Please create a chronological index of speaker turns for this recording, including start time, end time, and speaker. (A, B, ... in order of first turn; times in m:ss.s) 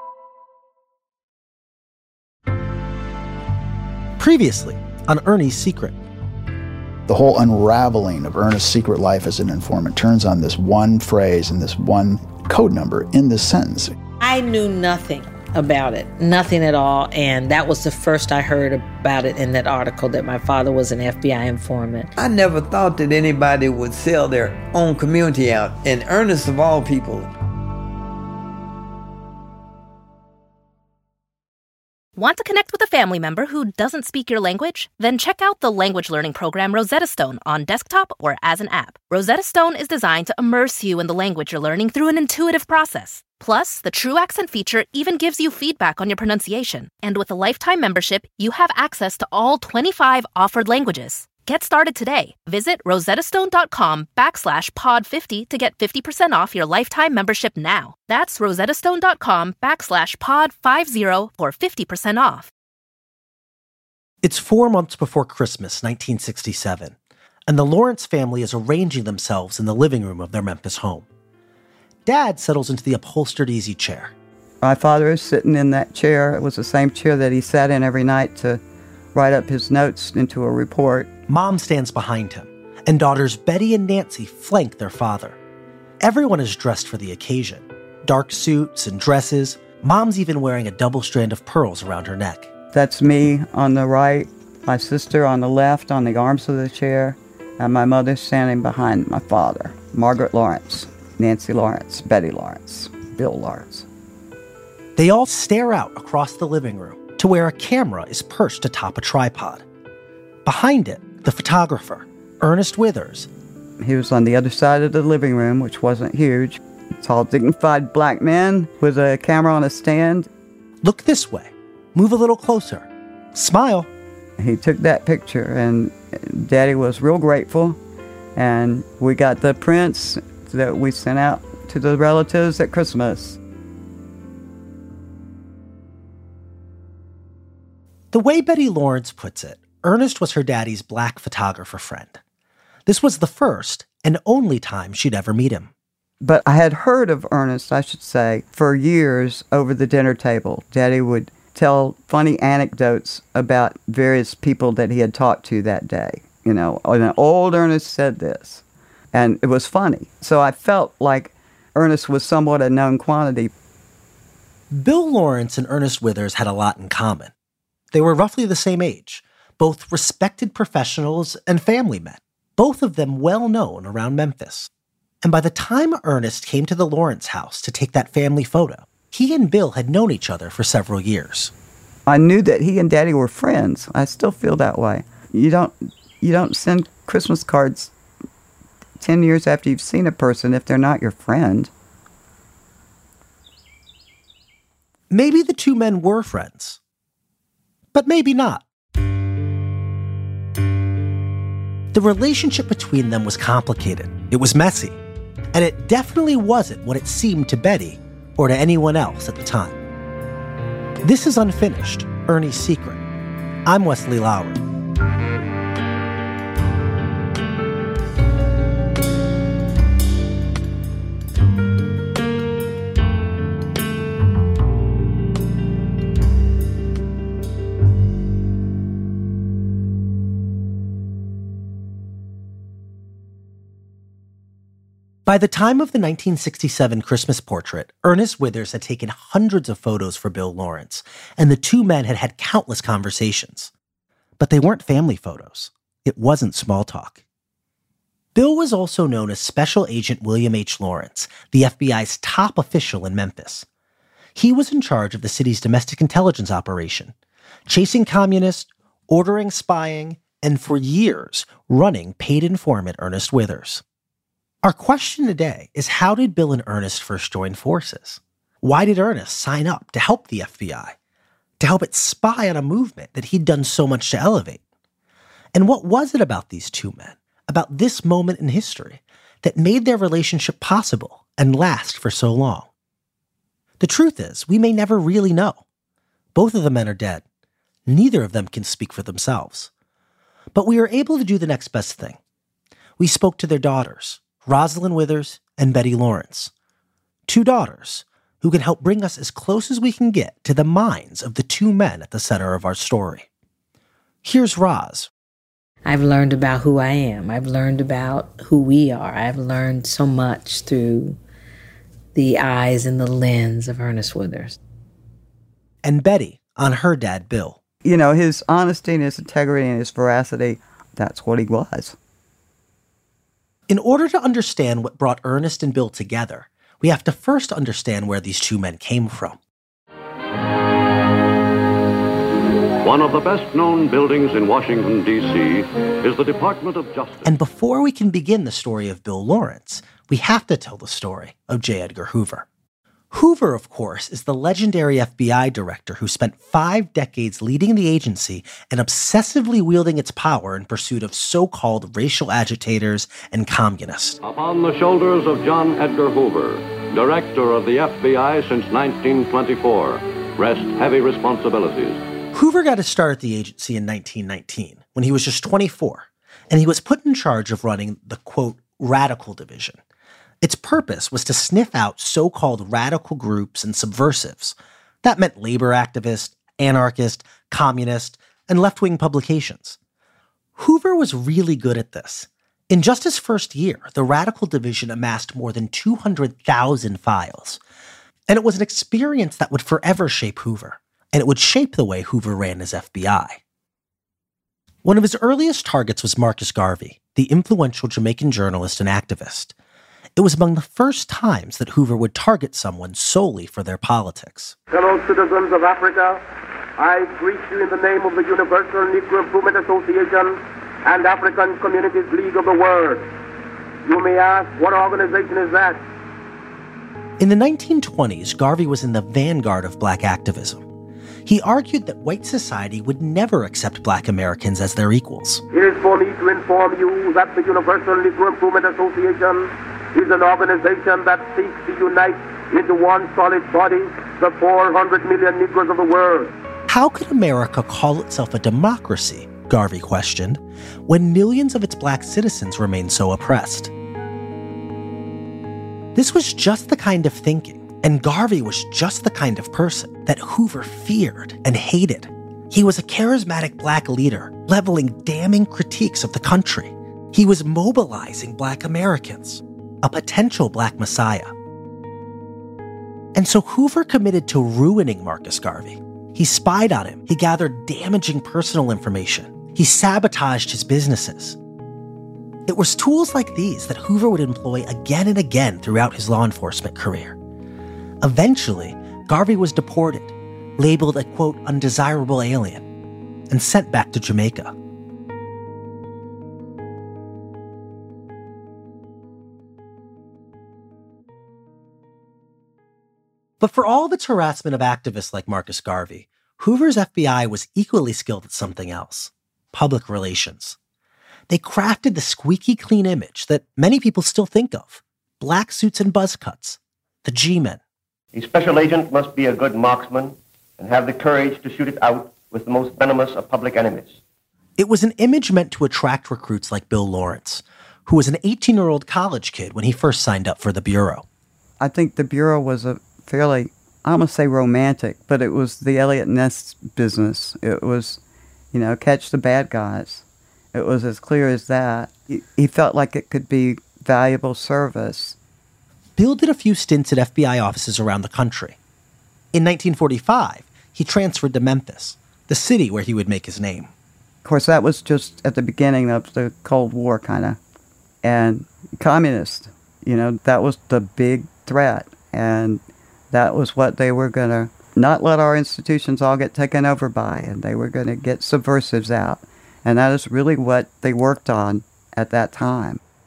0:04.2-0:06.0 A
0:07.1-0:13.9 B
0:14.2-0:22.1 C
0:22.2-0:27.3 D
0:32.2-1:02.5 E
1:04.2-1:06.9 A
1:07.5-1:11.0 A
1:12.0-1:14.1 A
1:14.6-1:18.6 F
1:19.1-1:21.1 F
1:21.3-1:25.4 A
1:26.0-1:32.5 A
1:32.7-1:43.8 F
1:45.0-1:49.6 A
1:50.4-1:53.3 A
1:53.8-2:00.3 F
2:00.8-2:03.9 A
2:04.4-2:07.8 F
2:08.4-2:13.4 F
2:18.1-2:22.2 A
2:22.9-2:25.7 A
2:26.2-2:43.5 F
2:44.7-2:47.3 A
2:47.9-2:54.7 A
2:55.2-3:01.5 A
3:02.1-3:07.9 F
3:09.0-3:11.7 F
3:15.1-3:16.8 A
3:17.9-3:18.6 A
3:21.9-3:25.0 A
3:25.5-3:29.8 A
3:31.0-3:33.0 A
3:33.6-3:34.6 A
3:55.2-4:03.7 A
4:04.4-4:07.2 A
4:08.3-4:13.6 A
4:14.4-4:17.1 A
4:17.7-4:23.8 A
4:24.6-4:30.9 A
4:31.6-4:34.6 A
4:35.5-4:42.7 A
4:43.8-4:45.6 A
4:46.3-4:47.2 A
4:47.9-4:49.7 A
4:50.5-4:52.2 A
4:53.0-4:56.5 A
4:57.3-5:03.3 A
5:04.2-5:05.1 A
5:05.8-5:11.2 C
5:12.1-5:14.6 C
5:15.8-5:17.6 A
5:17.8-5:22.0 F
5:23.7-5:29.4 A
5:32.8-5:37.3 G
5:37.2-5:42.4 A
5:43.1-5:54.2 A
5:54.2-6:02.0 G
6:02.3-6:09.8 A
6:10.4-6:19.8 A
6:20.6-6:27.6 A
6:28.3-6:33.4 A
6:34.8-6:39.5 A
6:40.2-6:44.6 A
6:44.7-6:46.2 H
6:46.8-6:53.1 H
6:53.8-6:55.8 H
6:57.2-7:00.6 A
7:01.2-7:05.4 A
7:05.5-7:16.3 H
7:16.7-7:23.7 A
7:25.9-7:41.3 A
7:43.1-7:51.4 A
7:52.5-7:57.2 A
7:58.0-8:02.6 A
8:03.3-8:04.5 A
8:13.4-8:20.6 A
8:21.3-8:27.6 A
8:28.1-8:34.0 I
8:34.6-8:41.0 A
8:41.6-8:48.0 F
8:48.5-8:55.2 F
8:56.0-8:58.6 A
8:59.3-9:03.7 A
9:04.2-9:07.4 F
9:08.0-9:22.8 F